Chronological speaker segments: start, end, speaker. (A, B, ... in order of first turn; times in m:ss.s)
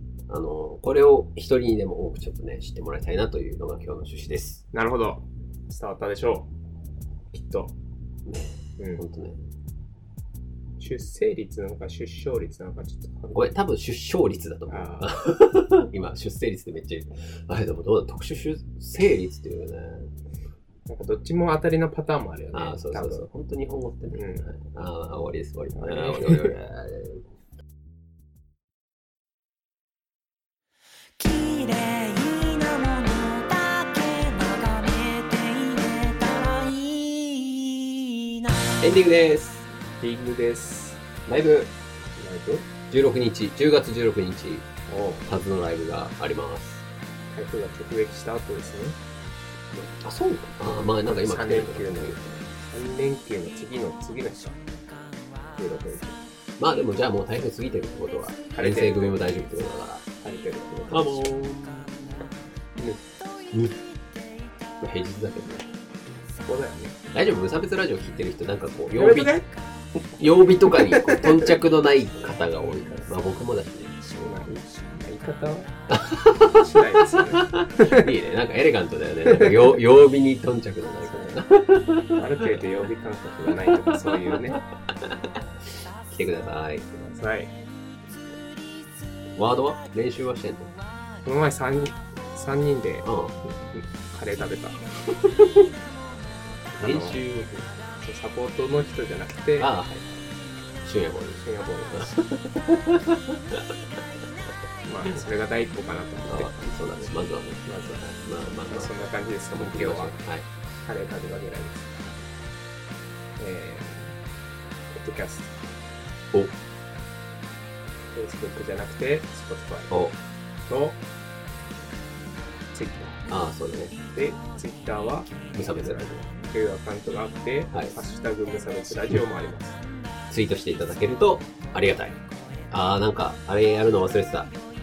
0:00.3-0:04.6 A
0:04.7-0:06.5 B
0:07.3-0:07.7 B
0:08.2-0:09.4 A
0:08.8-0:09.0 B
0:10.8-0:13.4 B
0:13.3-0:20.1 A
0:14.7-0:15.1 B
0:20.9-0:23.2 B
0:22.5-0:27.2 A
0:24.1-0:24.5 B
0:25.7-0:26.5 B
0:31.2-0:38.5 C
0:38.8-0:39.6 A
0:40.0-0:41.1 B
0:41.3-0:41.7 A
0:42.2-0:42.7 B
0:42.9-0:44.7 A
0:44.9-0:45.3 B
0:45.2-0:46.8 A
0:47.3-0:49.0 B
0:49.7-0:52.3 A
0:51.0-0:54.6 B
0:55.6-0:56.2 B
0:56.6-1:00.0 A
0:58.5-0:59.2 B
1:00.2-1:01.3 B
1:00.9-1:02.2 A
1:03.5-1:03.8 A
1:04.8-1:05.7 A
1:06.4-1:07.0 B
1:07.1-1:09.4 A
1:08.9-1:09.5 B
1:10.2-1:14.2 A
1:10.7-1:11.5 B
1:14.2-1:15.7 B
1:15.9-1:22.6 A
1:16.4-1:18.1 B
1:19.2-1:19.7 B
1:21.1-1:21.4 B
1:22.1-1:24.6 B
1:23.5-1:25.4 A
1:26.1-1:26.9 A
1:26.9-1:27.5 B
1:29.4-1:30.7 A
1:31.2-1:34.8 B
1:33.0-1:33.3 A
1:35.2-1:35.6 A
1:36.8-1:37.2 B
1:36.8-1:37.7 A
1:38.0-1:39.7 B
1:39.6-1:40.0 A
1:40.8-1:43.7 A
1:41.4-1:42.2 B
1:44.8-1:46.5 B
1:46.3-1:50.4 A
1:47.6-1:48.0 B
1:48.6-1:50.1 B
1:50.8-1:52.2 B
1:53.4-1:54.1 B
1:54.9-1:55.5 B
1:58.1-1:59.9 B
1:59.9-2:00.2 A
2:00.6-2:01.0 B
2:02.7-2:03.2 B
2:03.3-2:04.0 A
2:04.1-2:09.8 B
2:05.5-2:06.2 A
2:10.3-2:12.2 A
2:12.7-2:14.5 A